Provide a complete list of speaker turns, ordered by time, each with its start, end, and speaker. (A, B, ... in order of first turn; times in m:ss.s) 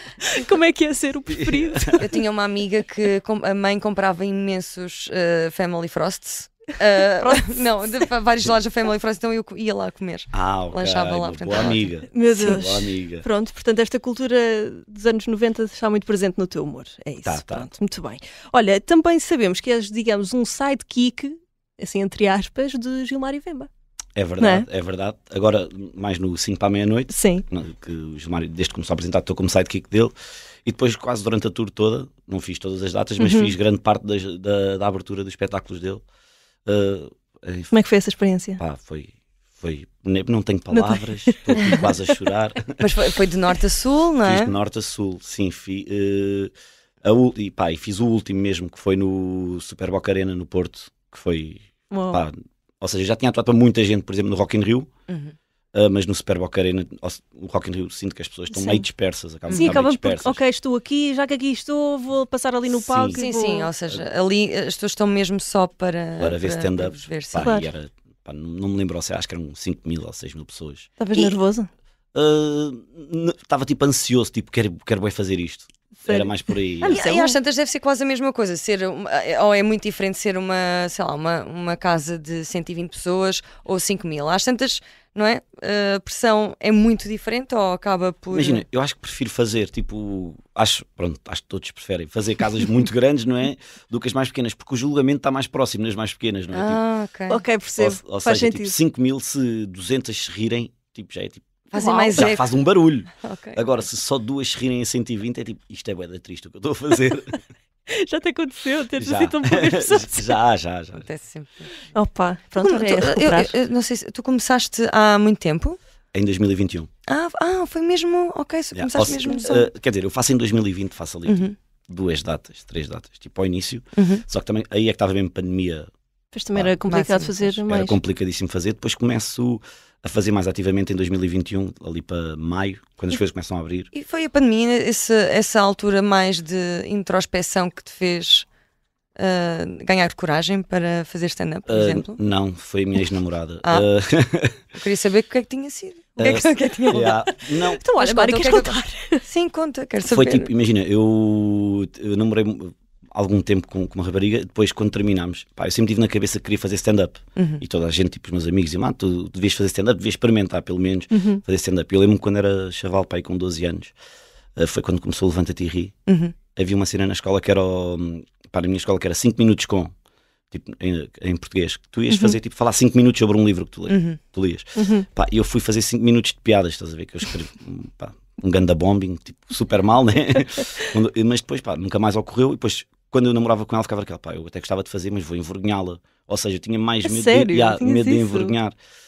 0:00.2-0:02.1 A
0:01.3-0:01.9 B
0:02.0-0:11.9 C
0:10.3-0:13.2 B
0:12.1-0:23.7 A
0:17.2-0:17.7 B
0:24.2-0:30.1 B
0:24.4-0:24.7 A
0:27.1-0:27.4 A
0:30.6-0:36.0 B
0:33.2-0:33.5 A
0:36.6-0:37.7 B
0:37.7-0:38.6 A
0:38.6-0:42.9 B
0:40.7-0:42.1 A
0:42.8-0:44.5 C
0:44.2-0:46.5 B
0:47.0-0:54.9 B
0:51.9-0:52.2 A
0:55.1-0:55.3 C
0:55.7-1:00.4 B
0:58.5-0:58.8 A
0:59.5-0:59.8 C
0:59.5-1:03.7 A
1:02.7-1:03.2 B
1:03.1-1:07.6 C
1:06.2-1:10.9 B
1:07.4-1:07.6 A
1:11.0-1:11.7 A
1:12.1-1:17.0 B
1:16.0-1:17.4 A
1:16.9-1:28.6 C
1:28.3-1:36.8 B
1:36.5-1:37.4 C
1:37.3-1:38.8 A
1:37.8-1:41.6 B
1:41.7-1:42.4 C
1:41.7-1:42.3 A
1:42.2-1:47.4 B
1:43.2-1:43.6 C
1:47.9-1:50.4 A
1:49.0-1:51.1 B
1:51.0-1:51.7 C
1:51.9-1:53.5 A
1:52.6-1:55.8 C
1:56.1-1:56.9 B
1:57.1-1:59.7 C
1:58.7-2:05.9 B
2:01.2-2:01.5 C
2:04.0-2:04.2 C
2:06.3-2:08.0 A
2:06.9-2:07.6 C
2:07.7-2:13.9 B
2:13.9-2:18.5 C
2:19.2-2:22.2 C
2:21.7-2:24.6 B
2:24.7-2:27.2 C
2:26.2-2:27.8 B
2:27.0-2:29.2 A
2:28.0-2:30.5 C
2:30.0-2:43.9 B
2:37.4-2:37.6 C
2:41.1-2:41.4 A
2:44.6-2:45.9 B
2:46.1-2:46.3 C
2:46.5-2:49.9 B
2:50.5-3:08.7 B
2:53.9-2:54.2 C
2:54.8-2:55.0 A
3:07.0-3:08.5 A